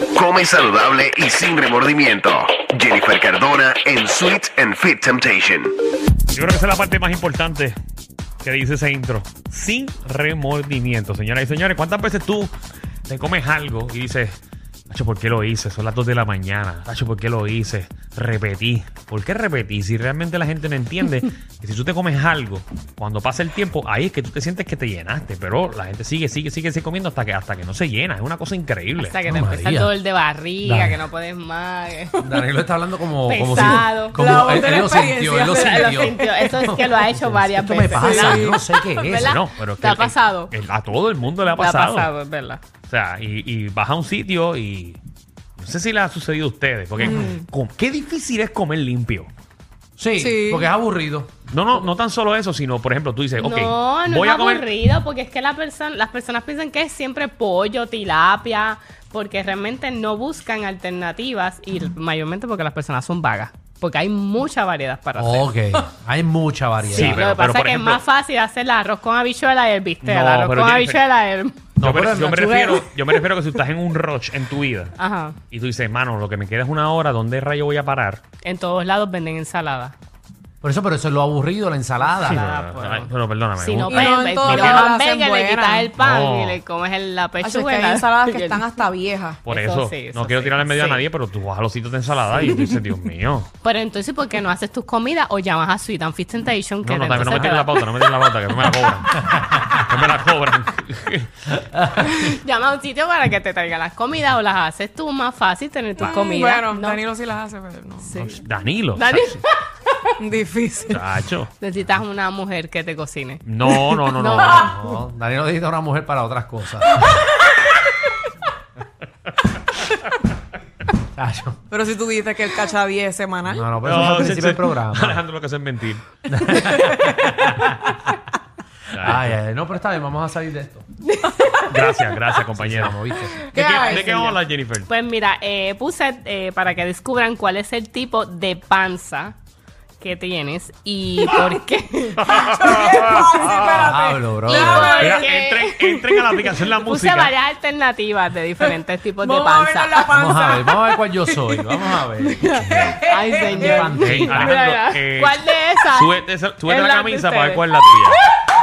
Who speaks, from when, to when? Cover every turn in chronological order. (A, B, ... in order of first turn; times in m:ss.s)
0:00.1-0:05.7 A
0:06.3-0:07.8 B
0:08.4-0:12.5 B
0:13.1-0:14.4 B
0:14.9-0:29.2 B
0:29.0-0:32.2 C
0:29.3-0:30.0 D
0:30.6-0:31.0 D
0:32.2-0:39.4 D
0:33.2-0:34.2 C
0:34.1-0:36.3 E
0:35.5-0:38.6 C
0:38.0-0:39.1 E
0:39.1-0:40.5 C
0:39.2-0:42.1 B
0:41.6-0:42.6 C
0:42.9-0:45.0 B
0:45.6-0:49.3 B
0:47.0-0:47.4 E
0:50.0-0:51.3 D
0:50.2-0:50.7 E
0:51.5-0:54.7 B
0:53.4-1:05.5 C
1:05.2-1:07.2 D
1:06.9-1:08.0 B
1:06.9-1:11.6 C
1:10.0-1:11.0 B
1:11.8-1:12.8 D
1:11.8-1:15.0 B
1:15.0-1:15.4 C
1:15.5-1:18.2 B
1:18.4-1:20.0 C
1:20.6-1:22.5 D
1:22.1-1:28.7 C
1:22.2-1:24.9 B
1:23.9-1:25.9 E
1:26.0-1:26.6 B
1:27.4-1:29.4 E
1:29.4-1:33.5 B
1:29.5-1:31.1 C
1:33.6-1:38.0 C
1:36.8-1:41.5 B
1:42.0-1:47.0 C
1:46.0-1:48.2 E
1:48.0-1:48.4 C
1:48.2-1:49.4 B
1:49.0-1:49.6 C
1:50.2-1:51.1 E
1:50.9-1:51.5 B
1:51.6-1:54.7 C
1:53.4-1:54.7 B
1:54.5-1:57.0 D
2:01.1-2:01.6 D
2:01.7-2:03.7 E
2:03.5-2:05.2 D
2:03.8-2:06.2 B
2:06.3-2:07.9 D
2:06.8-2:07.4 E
2:08.9-2:09.4 B
2:09.0-2:10.8 D
2:11.2-2:11.6 C
2:11.2-2:11.6 E
2:11.7-2:13.0 B
2:12.6-2:13.4 D
2:13.5-2:14.3 E
2:13.5-2:14.9 B
2:14.0-2:14.3 C
2:14.9-2:19.4 C
2:20.0-2:22.8 C
2:22.2-2:23.8 B
2:22.4-2:25.3 E
2:23.5-2:23.8 C
2:23.8-2:25.0 D
2:24.5-2:30.1 C
2:24.7-2:27.3 B
2:28.6-2:31.7 E
2:30.1-2:32.6 D
2:32.3-2:33.9 E
2:32.7-2:33.0 B
2:33.1-2:37.6 C
2:33.3-2:34.5 D
2:34.0-2:38.2 B